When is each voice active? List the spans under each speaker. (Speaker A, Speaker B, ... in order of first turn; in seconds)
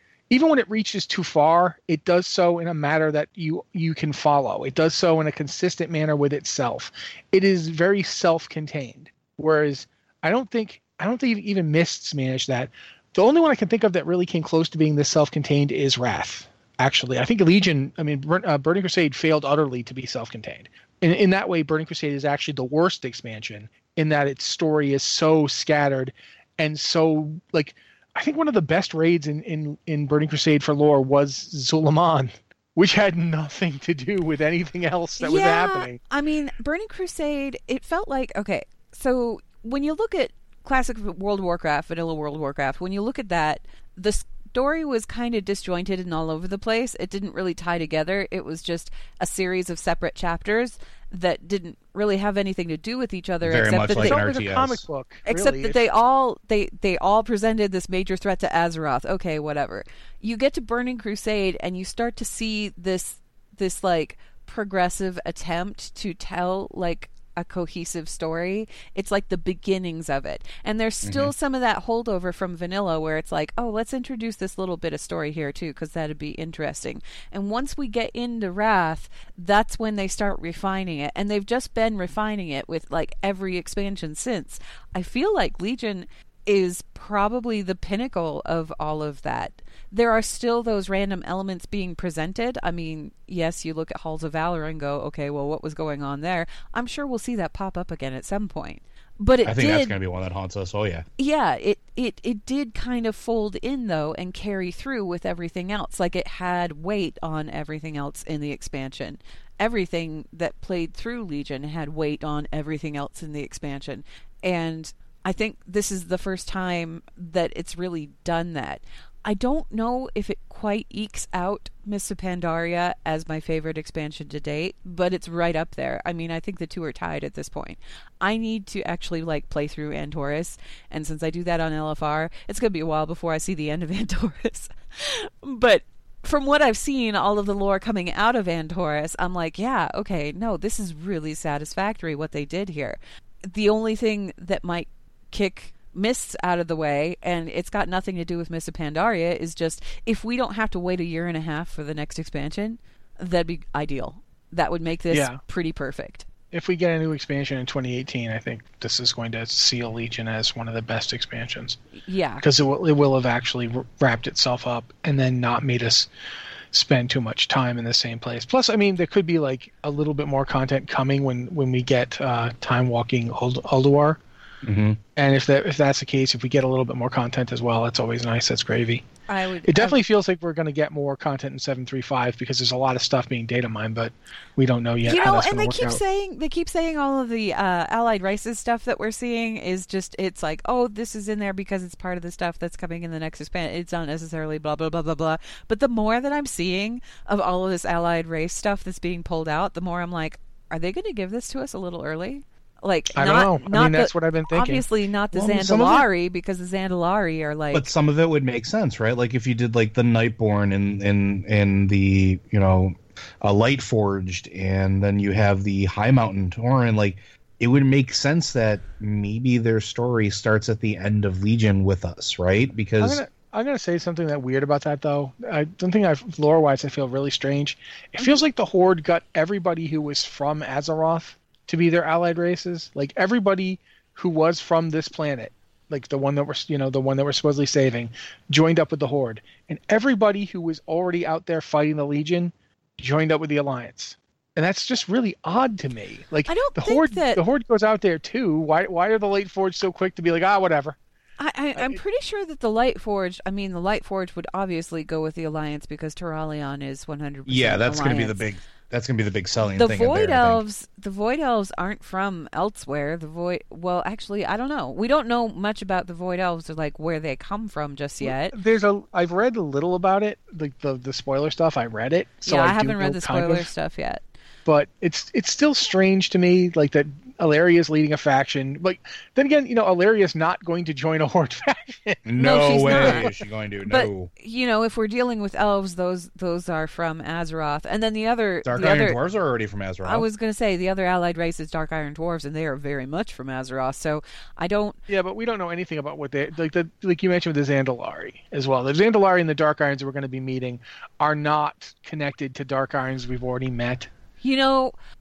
Speaker A: 0.3-36.0, 53.9-55.8, 155.1-155.4, 156.5-161.8, 162.4-166.1, 166.7-174.2, 175.2-179.1, 179.7-186.0, 203.2-204.8, 223.0-251.0, 268.2-273.7, 274.7-283.3, 295.1-304.1
Speaker B: 35.2-54.2, 55.3-100.0, 101.2-156.3, 162.1-162.4, 179.3-180.0, 185.0-207.9, 246.5-247.4, 251.4-258.5, 259.7-268.6, 272.4-274.2, 282.4-283.3, 283.9-289.2, 290.0-295.0, 304.4-304.9
Speaker C: 53.4-54.8, 71.0-71.3, 99.5-101.1, 174.6-175.0, 205.3-206.1, 207.7-223.2, 257.5-260.6, 282.3-284.3, 288.6-290.3